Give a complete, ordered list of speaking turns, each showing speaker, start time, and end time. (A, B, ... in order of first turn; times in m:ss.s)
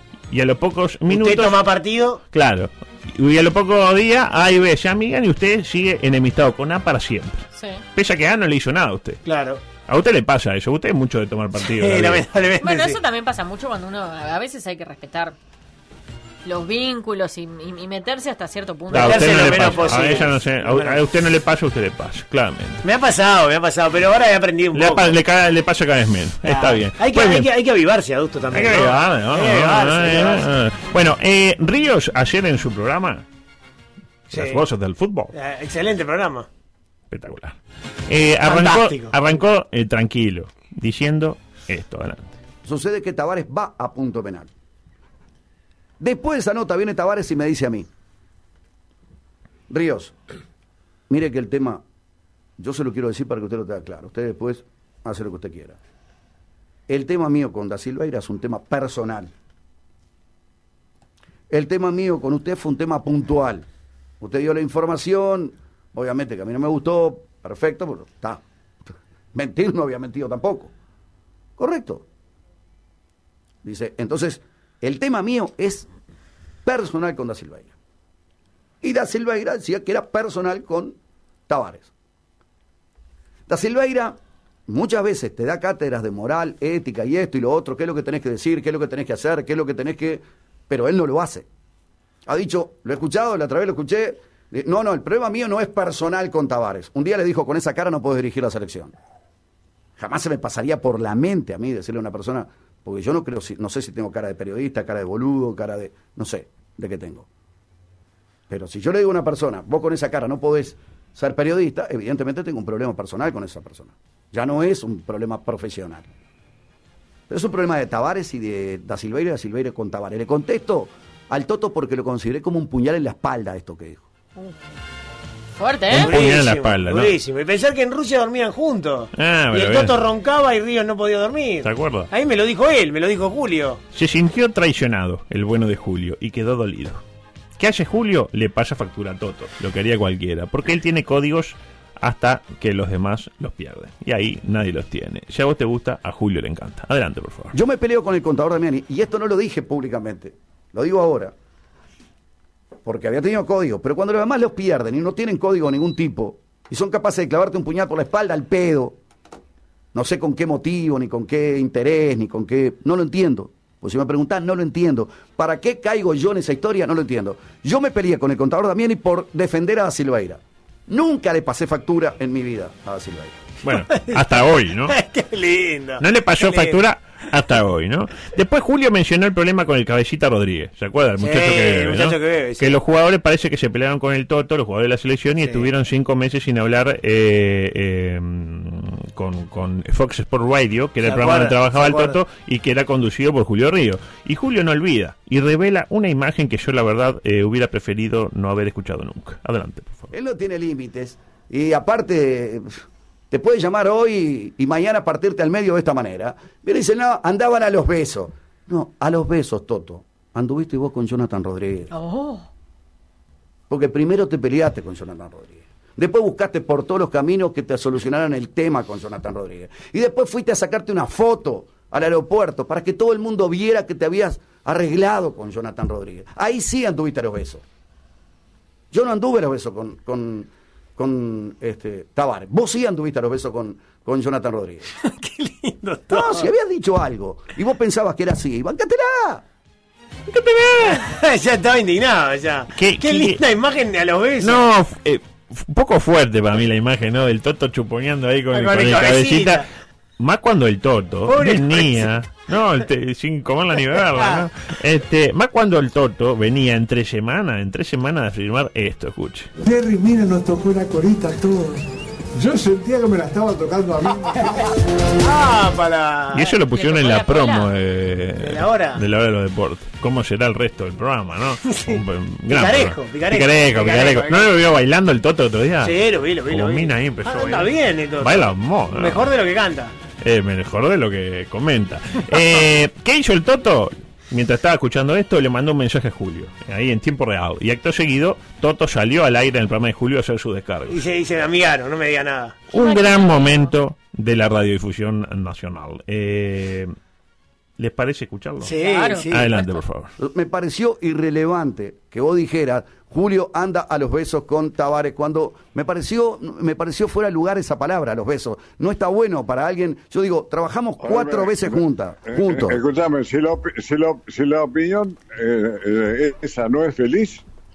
0:00.3-0:01.6 A
0:01.1-0:02.2 B
0:02.3-0:09.2 A
0:07.5-0:07.8 C
0:09.2-0:09.6 B
0:09.9-0:12.2 A
0:11.6-0:13.0 B
0:12.6-0:15.3 C
0:16.4-0:20.2 C
0:18.9-0:21.0 B
0:18.9-0:22.8 A
0:22.8-0:25.2 B
0:24.7-0:27.5 A
0:26.4-0:30.5 B
0:28.5-0:33.2 A
0:34.3-0:35.3 A
0:34.3-0:34.6 B
0:35.3-0:36.5 B
0:37.1-0:37.6 A
0:38.1-0:42.4 A
0:38.4-0:39.1 B
0:42.6-0:44.5 D
0:46.0-0:47.9 D
0:49.7-0:50.2 D
0:51.1-0:51.8 D
0:52.6-0:55.8 D
0:56.9-0:59.3 D
1:01.5-1:03.6 D
1:04.2-1:08.4 D
1:09.3-1:10.7 D
1:11.6-1:12.0 D
1:13.6-1:15.9 D
1:16.6-1:17.7 D
1:18.8-1:21.0 D
1:21.5-1:21.9 D
1:23.5-1:31.5 D
1:32.3-1:38.9 D
1:40.0-1:47.3 D
1:48.5-1:56.1 D
1:57.3-2:04.0 D
2:05.6-2:06.1 C
2:05.9-2:07.1 A
2:05.9-2:13.8 B
2:09.2-2:09.9 A
2:11.6-2:12.1 A
2:13.9-2:17.0 A
2:17.6-2:27.5 A
2:27.5-2:31.3 D
2:32.8-2:39.0 D
2:39.9-2:53.3 D
2:53.6-2:55.0 A
2:53.7-2:56.8 B
2:56.0-3:20.1 A
3:01.2-3:02.7 B
3:11.0-3:12.2 B
3:20.1-3:31.9 D
3:31.9-3:32.4 C
3:33.7-3:47.6 D
3:48.9-3:54.9 D
3:55.0-3:56.5 B
3:56.1-3:59.4 D
4:00.3-4:01.0 A
4:00.8-4:04.6 B
4:02.7-4:03.4 A
4:04.4-4:09.6 A
4:08.5-4:09.6 B
4:10.2-4:19.5 A
4:11.3-4:12.1 B
4:19.6-4:21.8 E
4:22.3-4:24.4 E
4:25.2-4:26.5 B
4:26.3-4:39.3 A
4:26.7-4:27.7 C
4:28.4-4:29.0 B
4:31.7-4:34.5 B
4:35.8-4:39.9 B
4:40.2-4:51.1 A
4:50.9-4:52.6 B
4:52.7-4:56.9 A
4:52.7-4:53.7 C
4:57.8-4:58.7 A
4:58.6-4:59.5 B
4:58.8-4:59.3 C
4:59.3-5:00.1 A
5:00.2-5:12.8 D
5:11.0-5:17.4 F